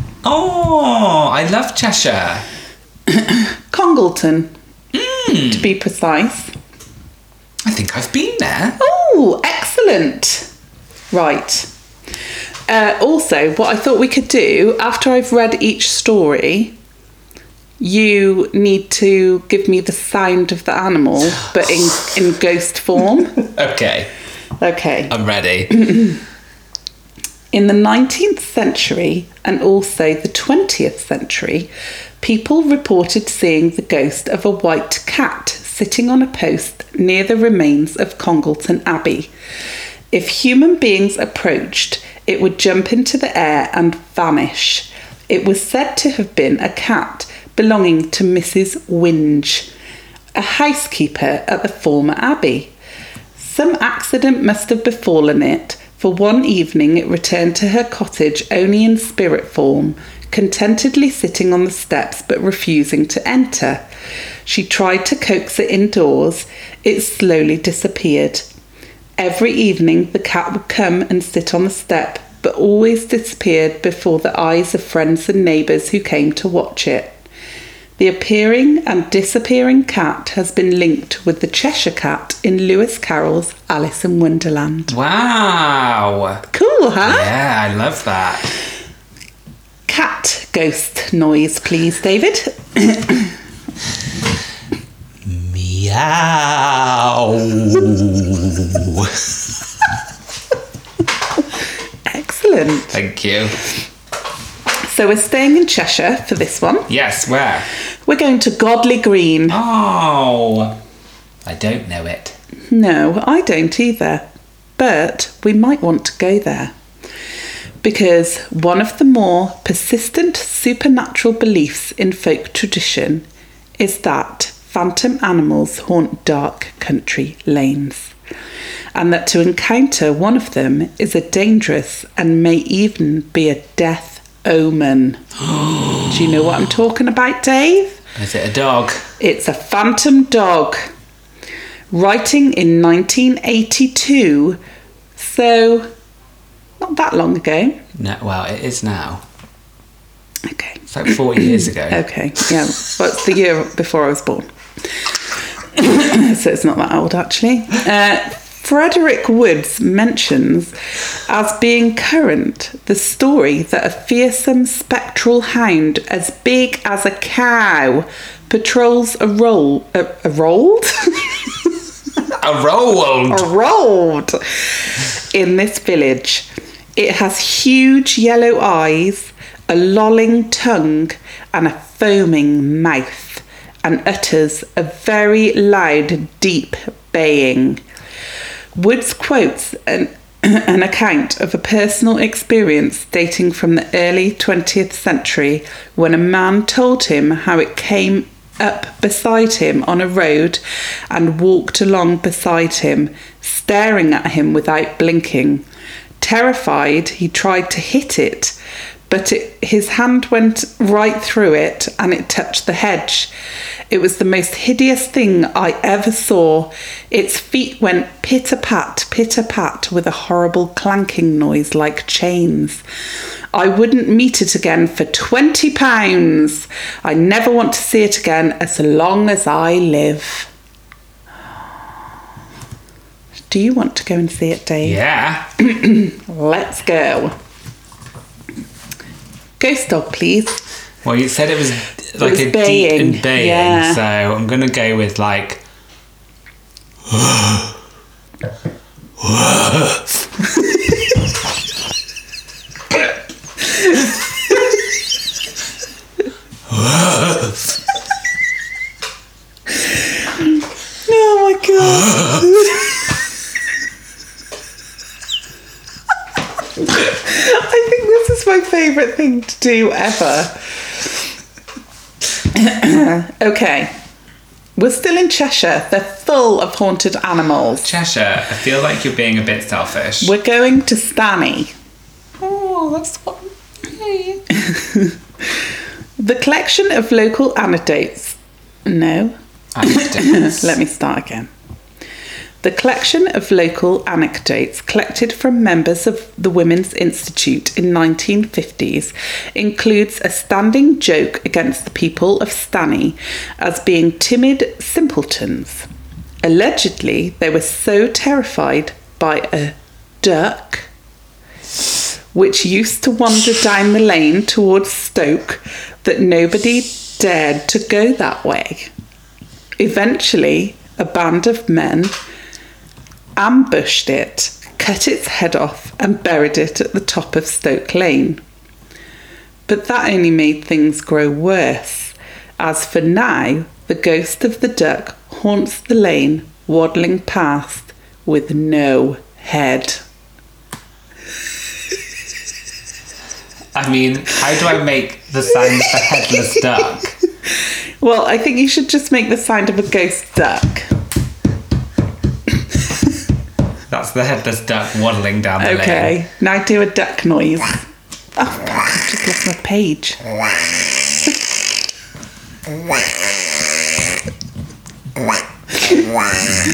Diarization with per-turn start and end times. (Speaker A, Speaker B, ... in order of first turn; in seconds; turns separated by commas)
Speaker A: 0.2-2.4, Speaker B: 3.1-4.5, Speaker A: 4.9-5.7, Speaker B: 5.4-6.5, Speaker A: 7.6-8.8, Speaker B: 8.8-10.5, Speaker B: 11.1-11.7, Speaker B: 12.7-16.8, Speaker B: 17.8-23.4, Speaker A: 23.3-24.1, Speaker B: 24.6-25.1, Speaker A: 25.1-26.2, Speaker B: 25.7-26.1, Speaker B: 27.5-31.7, Speaker B: 32.2-39.3, Speaker B: 40.1-49.7, Speaker B: 50.3-52.7, Speaker B: 53.4-63.8, Speaker B: 64.5-68.5, Speaker B: 69.2-77.2, Speaker B: 78.0-84.9, Speaker A: 84.9-86.4, Speaker B: 86.5-87.3, Speaker A: 87.0-88.5, Speaker B: 89.9-93.3, Speaker A: 95.2-99.5, Speaker B: 102.0-102.9, Speaker A: 102.9-103.6, Speaker B: 104.8-106.9, Speaker A: 106.9-107.7, Speaker B: 108.0-109.6, Speaker A: 109.5-110.8, Speaker A: 111.4-112.3, Speaker B: 112.7-114.2, Speaker B: 114.8-116.7, Speaker B: 117.8-123.2, Speaker B: 123.8-128.1, Speaker B: 128.9-135.2, Speaker A: 135.4-136.6, Speaker B: 136.1-138.0, Speaker A: 138.1-139.1, Speaker B: 139.2-140.9, Speaker B: 141.9-144.6, Speaker B: 145.2-145.9, Speaker B: 146.8-147.8, Speaker A: 147.9-149.2, Speaker B: 150.5-154.5, Speaker A: 150.9-152.0, Speaker B: 155.7-160.7, Speaker B: 161.3-171.7, Speaker A: 172.3-173.5, Speaker B: 173.3-174.4, Speaker B: 175.2-187.8, Speaker B: 188.7-205.6, Speaker B: 206.2-208.5, Speaker B: 209.1-213.3, Speaker B: 213.9-222.8, Speaker B: 223.5-230.5, Speaker B: 233.5-235.0, Speaker A: 234.8-235.5, Speaker B: 235.6-237.3, Speaker B: 239.6-240.6, Speaker A: 241.0-245.6, Speaker B: 242.2-244.0, Speaker A: 247.1-247.8, Speaker A: 249.2-250.2, Speaker A: 256.7-257.6, Speaker B: 261.1-262.9, Speaker B: 266.8-270.6, Speaker B: 272.5-273.9, Speaker B: 274.8-277.9, Speaker A: 277.8-280.3, Speaker B: 280.2-281.7, Speaker A: 282.4-284.4, Speaker B: 284.5-285.1, Speaker B: 286.2-291.5, Speaker A: 289.7-290.7, Speaker B: 292.6-305.9, Speaker B: 306.4-310.9, Speaker B: 312.3-318.9, Speaker B: 319.8-322.1, Speaker B: 323.4-328.4, Speaker B: 329.7-340.0, Speaker A: 343.7-347.1, Speaker B: 348.0-350.9, Speaker A: 353.9-356.1, Speaker B: 355.6-357.8, Speaker B: 358.4-360.2